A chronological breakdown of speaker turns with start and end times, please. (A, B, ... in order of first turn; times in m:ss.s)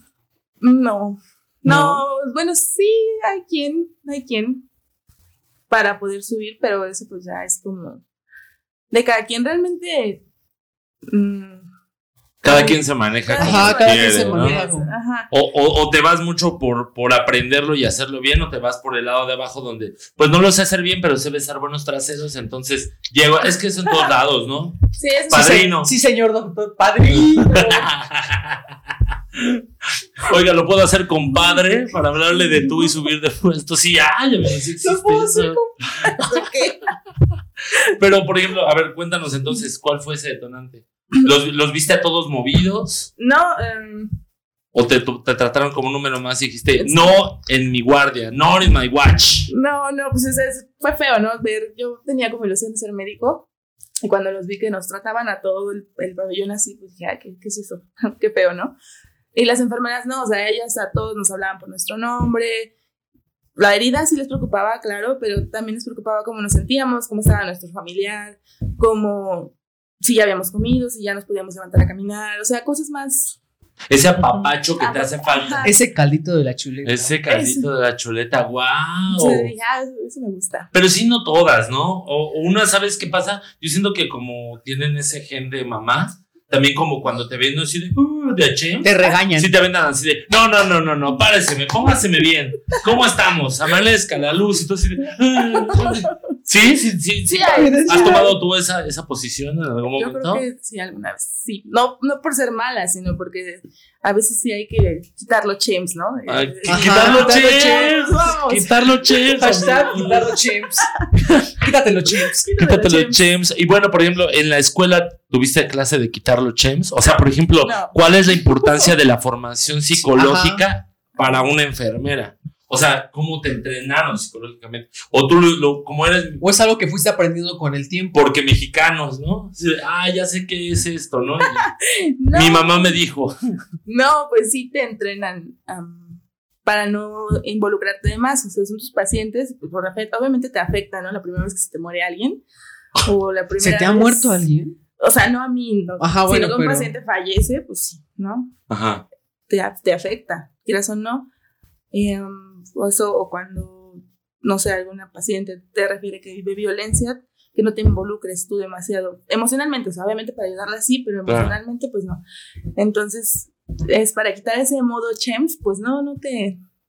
0:00.6-0:04.6 A
0:01.6-0:02.0 B
0:05.7-0:08.0 A
0:08.9-0:10.2 A
0:11.1-0:11.7 A
0:12.4-0:14.6 C
0:12.4-0:15.3 A
0:13.4-0:14.9 B
0:15.3-0:25.9 C
0:24.9-0:25.7 A
0:25.3-0:27.9 B
0:27.1-0:28.8 C
0:29.4-0:29.6 C
0:30.2-0:36.4 C
0:34.8-0:35.7 B
0:36.0-0:36.9 A
0:37.8-0:43.1 C
0:43.2-0:44.1 A
0:44.7-0:49.5 C
0:46.8-0:47.2 A
0:49.5-0:53.5 A
0:54.0-0:58.7 A
0:59.3-1:02.7 A
1:03.6-1:13.4 A
1:13.9-1:15.7 C
1:14.8-1:15.7 A
1:15.6-1:17.2 B
1:16.8-1:19.5 C
1:17.3-1:17.7 A
1:19.1-1:20.7 A
1:20.7-1:40.4 C
1:28.8-1:29.5 B
1:35.6-1:36.1 A
1:37.3-1:38.3 A
1:37.5-1:38.4 B
1:40.0-1:51.3 A
1:46.3-1:50.2 C
1:46.7-1:48.1 B
1:49.4-1:50.9 B
1:51.5-1:52.5 B
1:52.1-1:53.2 A
1:52.6-2:06.4 C
1:57.6-1:58.9 A
2:00.0-2:00.6 B
2:06.4-2:08.2 B
2:08.1-2:11.7 C
2:11.6-2:13.0 A
2:12.3-2:13.4 C
2:13.9-2:22.4 A
2:23.0-2:24.5 A
2:23.6-2:24.8 B
2:25.0-2:28.5 A
2:26.0-2:26.9 B
2:28.7-2:29.0 C
2:29.5-2:31.3 A
2:31.9-2:42.2 A
2:41.2-2:41.5 C
2:42.8-2:46.6 A